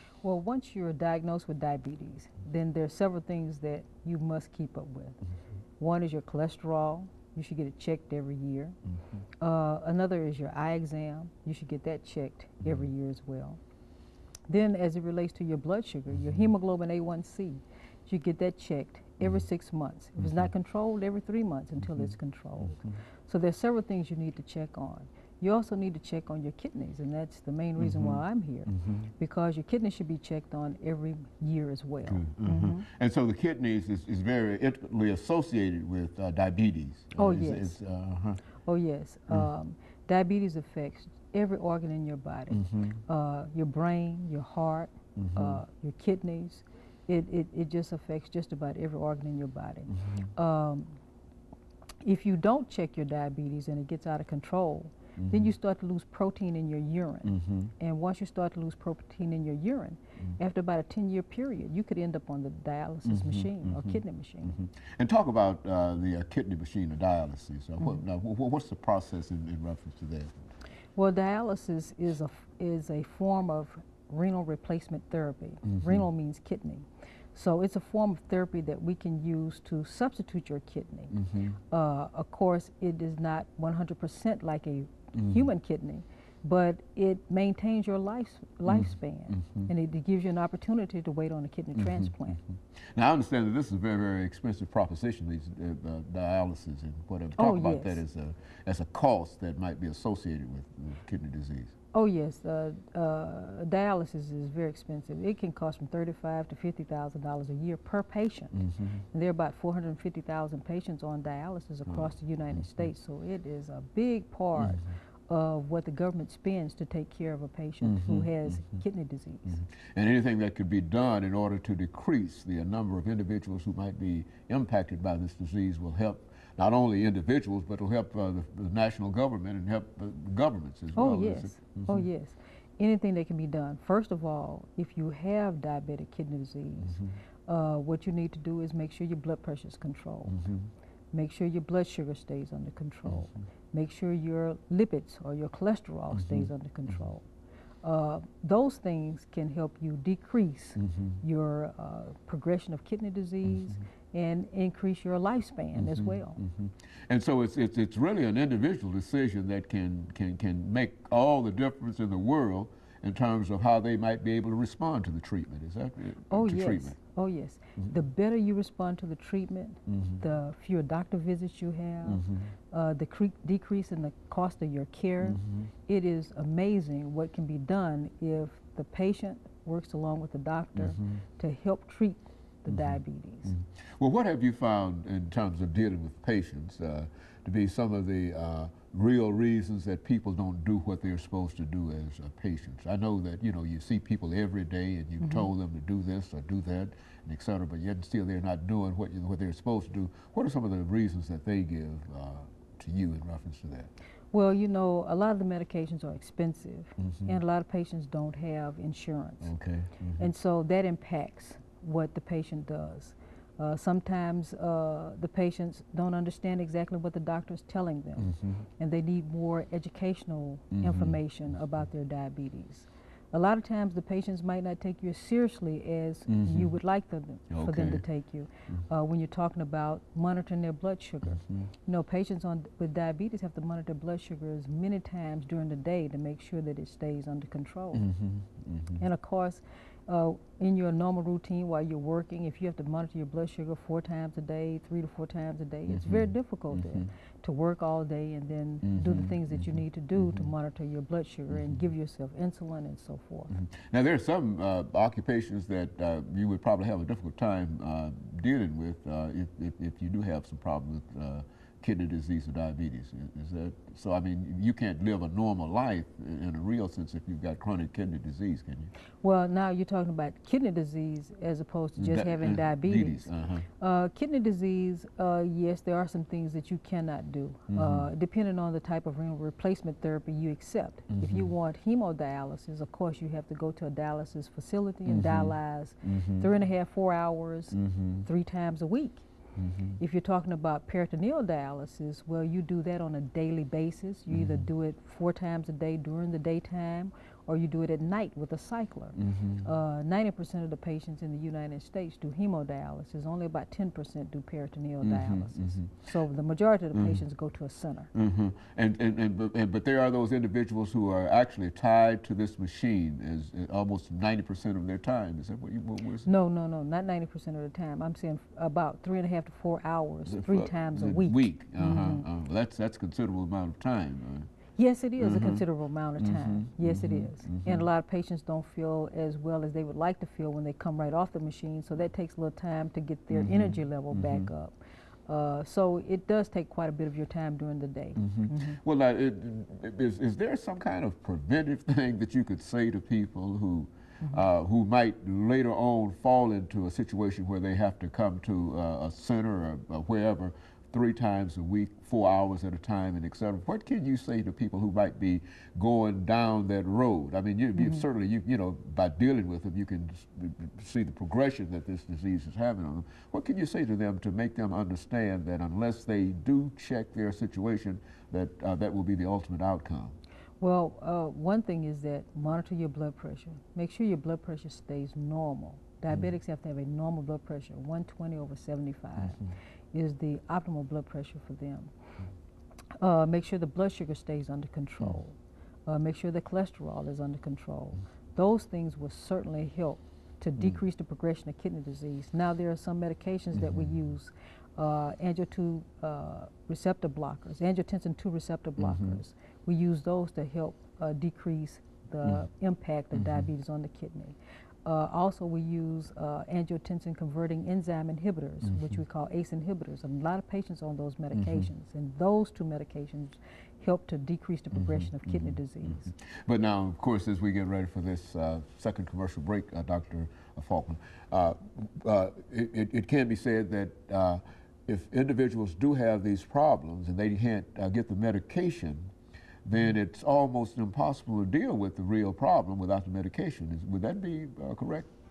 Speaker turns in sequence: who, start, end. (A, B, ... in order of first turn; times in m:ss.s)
0:00.2-0:05.2 A
0:05.8-0:08.8 A
0:09.4-0:13.6 A
0:14.5-0:32.8 A
0:16.1-0:16.4 B
0:20.2-0:20.5 B
0:21.9-0:23.0 B
0:27.8-0:29.1 B
0:32.0-0:38.4 B
0:37.2-0:37.8 A
0:38.6-0:51.0 A
0:42.5-0:43.0 B
0:45.2-0:45.6 B
0:49.9-0:50.3 B
0:52.0-1:04.6 A
0:55.2-0:55.5 B
0:57.3-0:57.7 B
1:03.0-1:10.5 B
1:11.0-1:21.2 A
1:15.7-1:16.0 B
1:21.1-1:21.6 B
1:21.7-1:32.4 A
1:25.2-1:25.4 B
1:28.7-1:29.7 B
1:31.8-1:32.1 B
1:32.9-1:41.7 B
1:37.4-1:38.0 A
1:41.9-1:59.6 A
1:48.5-1:49.0 B
1:51.9-1:52.6 B
1:57.8-1:58.3 B
1:59.8-2:12.1 B
2:11.0-2:20.4 A
2:16.8-2:17.1 B
2:20.3-2:20.7 B
2:21.1-2:27.3 A
2:26.1-2:26.5 B
2:27.8-2:36.4 A
2:30.8-2:31.2 B
2:35.8-2:47.0 B
2:46.3-3:03.5 A
2:49.9-2:50.2 B
2:52.1-2:52.5 B
2:55.2-2:55.7 B
3:00.8-3:01.1 B
3:02.7-3:03.0 B
3:03.5-3:23.9 B
3:15.2-3:15.5 A
3:24.3-3:29.5 A
3:27.0-3:27.4 B
3:29.4-3:30.3 B
3:30.2-3:58.1 A
3:38.2-3:38.6 B
3:40.7-3:41.2 B
3:46.3-3:46.8 B
3:47.5-3:48.0 B
3:57.9-3:59.0 B
3:59.0-4:13.5 A
4:05.9-4:07.1 B
4:08.8-4:10.5 B
4:11.5-4:11.8 B
4:13.5-4:28.9 B
4:29.2-4:49.3 A
4:32.0-4:33.7 B
4:37.7-4:38.1 B
4:41.1-4:41.5 B
4:45.1-4:46.5 B
4:47.7-4:48.3 B
4:49.6-4:50.0 B
4:50.0-5:08.1 A
4:54.3-4:54.7 B
4:59.2-4:59.7 B
5:05.0-5:05.9 B
5:07.0-5:07.2 B
5:08.1-5:16.3 B
5:16.2-5:22.2 A
5:20.3-5:24.5 B
5:24.8-5:34.8 A
5:25.2-5:25.6 B
5:26.2-5:27.9 B
5:33.3-5:34.5 B
5:35.3-5:38.8 A
5:38.2-6:10.2 B
5:57.8-5:58.0 A
6:10.6-6:21.9 A
6:23.0-6:56.1 A
6:33.5-6:34.0 B
6:38.8-6:39.2 B
6:43.2-6:43.5 B
6:51.3-6:51.7 B
6:54.7-7:09.1 B
7:09.7-7:15.1 B